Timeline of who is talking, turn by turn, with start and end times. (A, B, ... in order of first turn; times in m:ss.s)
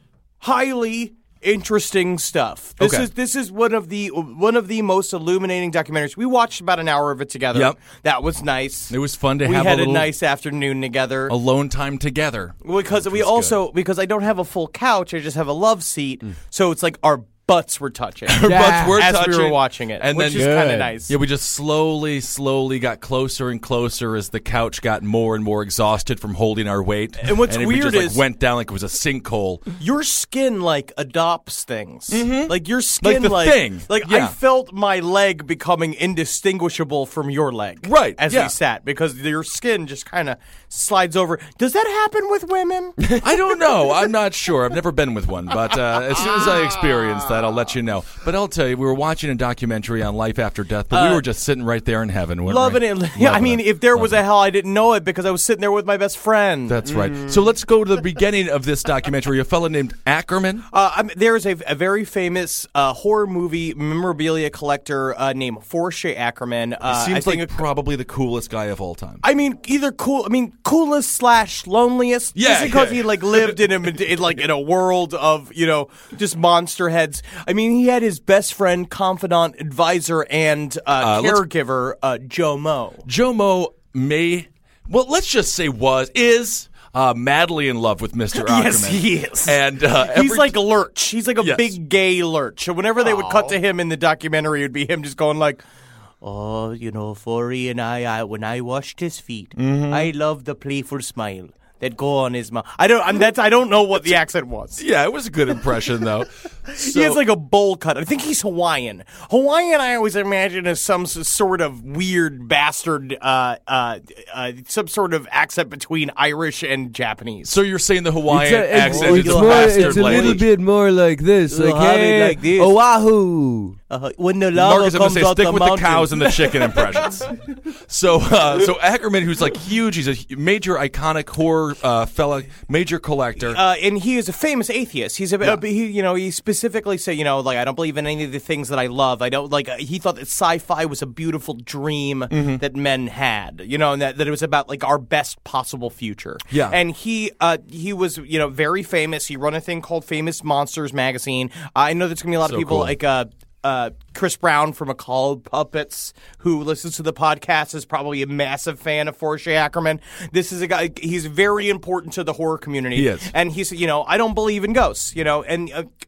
0:00.4-0:11.4 A
0:02.8-0:03.1 B
0:08.9-0:10.1 B
0:11.3-0:13.6 B
0:12.6-0:21.1 A
0:18.3-0:29.6 B
0:18.4-0:19.0 C
0:20.2-0:21.0 C
0:27.2-0:28.2 A
0:29.8-0:43.0 A
0:32.1-0:34.4 B
0:37.8-0:38.6 B
0:43.0-0:43.3 C
0:43.2-0:54.2 B
0:50.9-0:51.2 A
0:52.5-0:56.8 A
0:56.7-1:00.6 B
0:56.9-0:57.2 C
1:00.7-1:07.6 A
1:06.8-1:09.2 B
1:09.2-1:23.0 A
1:12.4-1:13.6 B
1:21.0-1:21.4 B
1:23.1-1:30.6 B
1:28.3-1:35.6 A
1:31.4-1:31.8 B
1:36.2-1:44.8 A
1:39.6-1:40.1 B
1:44.8-1:47.2 B
1:46.7-1:57.5 A
1:57.5-2:00.4 B
1:58.3-2:03.8 C
1:58.8-2:00.4 A
2:01.5-2:02.8 A
2:03.9-2:06.8 A
2:04.6-2:07.3 B
2:07.9-2:13.6 B
2:13.4-2:45.9 A
2:22.3-2:22.6 B
2:26.5-2:26.8 B
2:32.4-2:33.0 B
2:43.0-2:43.3 B